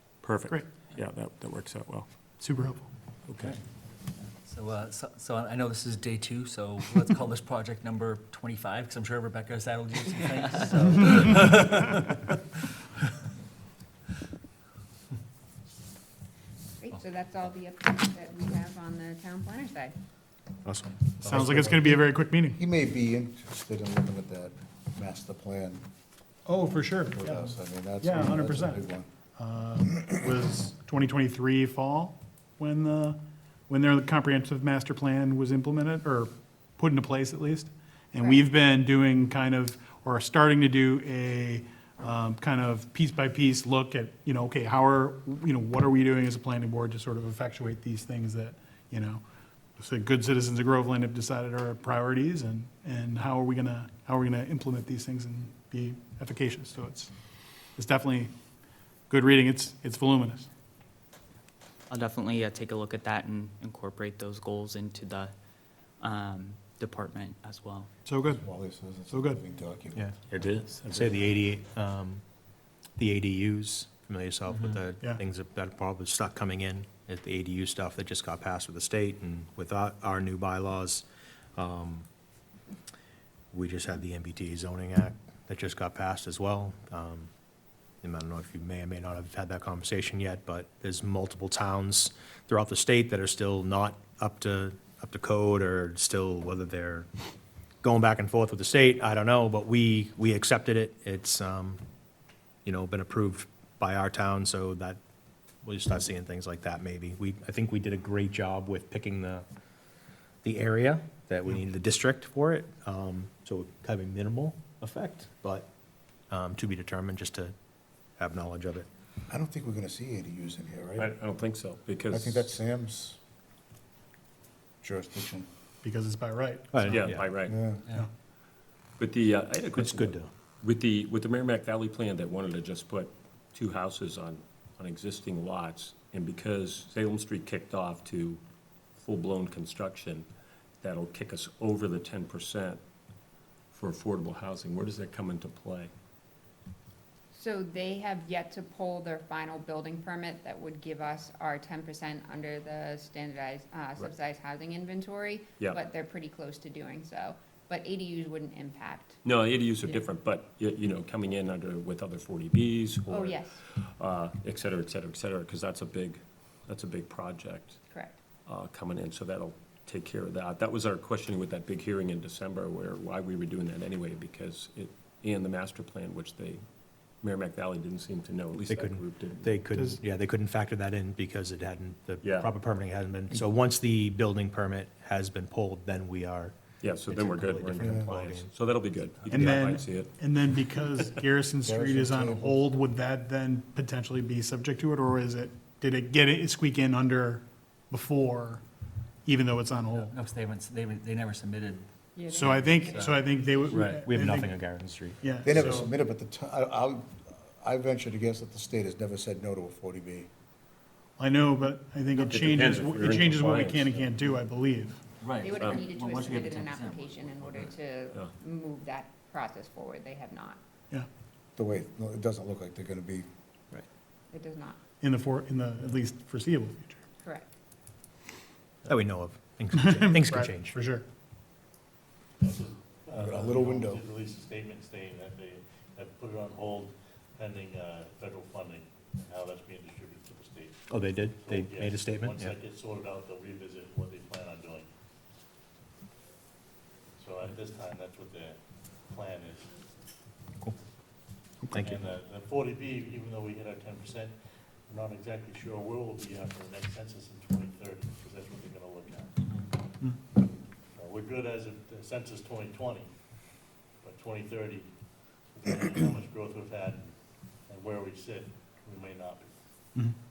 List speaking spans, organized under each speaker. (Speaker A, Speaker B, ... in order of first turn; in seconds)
Speaker A: 0.2-2.1, 3.3-3.6, 70.3-71.2, 121.0-122.5, 126.9-127.7, 129.0-138.4, 139.0-140.3, 140.8-142.8, 143.7-145.9, 159.2-167.8, 168.5-176.6, 177.2-179.6, 182.2-182.5, 186.8-190.1, 203.7-204.0, 212.2-214.1, 215.5-215.8
Speaker B: 2.4-2.9, 21.2-22.6, 26.5-49.2, 49.8-57.1, 57.8-58.3, 59.1-60.5, 68.0-68.5, 69.1-69.4, 125.8-127.2, 189.3-198.6, 199.2-200.1, 202.3-204.6, 205.2-205.9, 211.2-215.0, 225.0-227.0, 229.7-231.1
Speaker C: 4.4-12.2, 199.9-203.3, 215.2-217.7
Speaker D: 16.8-19.9, 147.3-159.2, 163.1-163.6, 167.9-168.2, 202.2-203.6, 215.4-220.6, 224.3-224.8, 227.2-227.5
Speaker E: 20.6-21.5, 70.0-72.2, 73.0-82.1, 83.5-87.3, 88.0-97.1, 97.8-101.8, 102.7-105.0, 105.6-109.5, 110.4-115.7, 116.3-117.5, 118.2-118.9, 126.7-127.3, 129.8-130.3, 178.7-188.5, 204.0-205.2, 228.8-230.8, 240.9-242.5, 251.7-252.0
Speaker F: 21.3-25.9, 27.1-29.1, 68.2-70.1, 119.3-121.1, 122.1-123.2, 124.8-125.5, 127.5-127.9, 187.8-188.1, 191.7-192.6, 205.4-210.3, 221.6-223.3, 233.2-234.1
Speaker G: 61.9-65.3, 66.0-67.9
Speaker H: 232.4-240.8, 241.4-244.9, 247.2-249.7, 251.7-254.4, 254.9-259.3, 260.9-263.1, 264.0-264.9, 265.5-267.1, 267.7-269.5